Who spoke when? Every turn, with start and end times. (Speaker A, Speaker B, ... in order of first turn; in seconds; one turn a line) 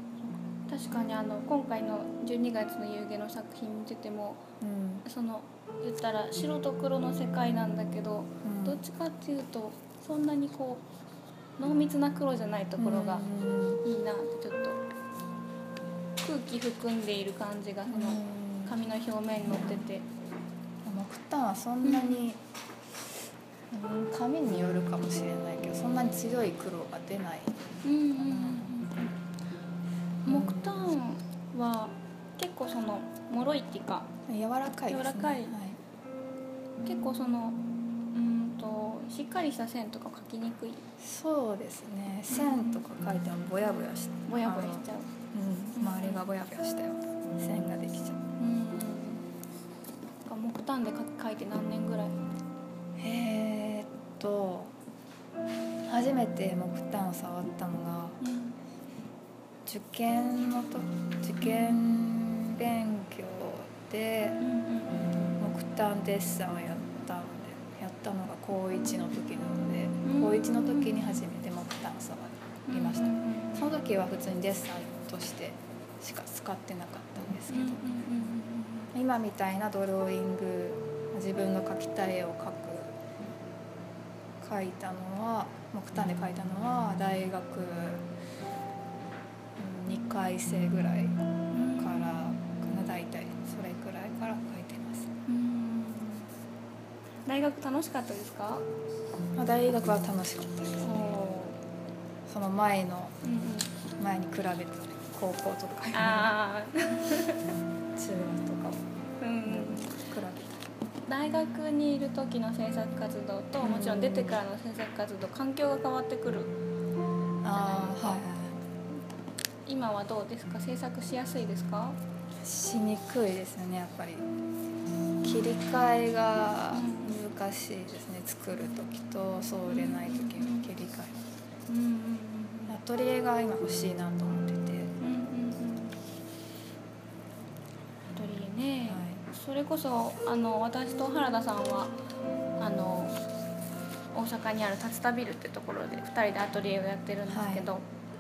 Speaker A: 0.7-4.4
Speaker B: 4.6-5.0
Speaker A: 5.0-10.8
Speaker B: 8.4-8.8
Speaker A: 11.6-13.3
Speaker B: 12.8-13.8
Speaker A: 13.8-14.8
Speaker A: 16.2-20.1
Speaker B: 17.9-18.7
Speaker B: 20.8-22.4
Speaker A: 21.8-22.3
Speaker B: 23.7-27.6
Speaker A: 27.8-29.1
Speaker B: 28.2-28.7
Speaker B: 30.3-30.9
Speaker A: 30.3-34.1
Speaker B: 34.3-35.8
Speaker A: 34.9-35.5
Speaker A: 36.8-37.6
Speaker A: 38.1-40.9
Speaker B: 41.0-48.2
Speaker A: 42.3-42.8
Speaker A: 44.3-45.1
Speaker A: 45.8-46.2
Speaker A: 48.4-49.2
Speaker A: 50.2-52.2
Speaker B: 53.0-54.8
Speaker B: 55.9-58.2
Speaker A: 58.2-58.6
Speaker B: 59.7-64.4
Speaker A: 64.4-65.4
Speaker B: 65.4-77.8
Speaker A: 70.0-71.0
Speaker A: 72.7-73.7
Speaker A: 77.5-78.9
Speaker B: 78.9-83.0
Speaker B: 84.4-88.1
Speaker B: 89.6-91.2
Speaker A: 91.5-92.1
Speaker B: 91.8-95.1
Speaker A: 95.3-96.3
Speaker A: 97.3-98.7
Speaker B: 99.3-100.9
Speaker A: 100.8-101.6
Speaker B: 102.3-103.2
Speaker A: 103.2-103.7
Speaker B: 104.0-106.3
Speaker A: 105.9-107.4
Speaker B: 108.0-108.8
Speaker A: 109.2-109.9
Speaker B: 109.5-110.6
Speaker A: 111.1-116.5
Speaker B: 113.6-114.4
Speaker B: 117.4-118.6
Speaker A: 117.5-118.2
Speaker A: 119.7-122.0
Speaker B: 122.4-124.3
Speaker B: 125.2-131.2
Speaker A: 126.7-127.2
Speaker A: 129.7-130.7
Speaker A: 131.7-132.7
Speaker B: 132.7-134.9
Speaker A: 135.0-136.0
Speaker A: 138.1-142.0
Speaker B: 138.9-139.2
Speaker A: 142.6-143.2
Speaker A: 144.1-147.8
Speaker B: 147.3-147.7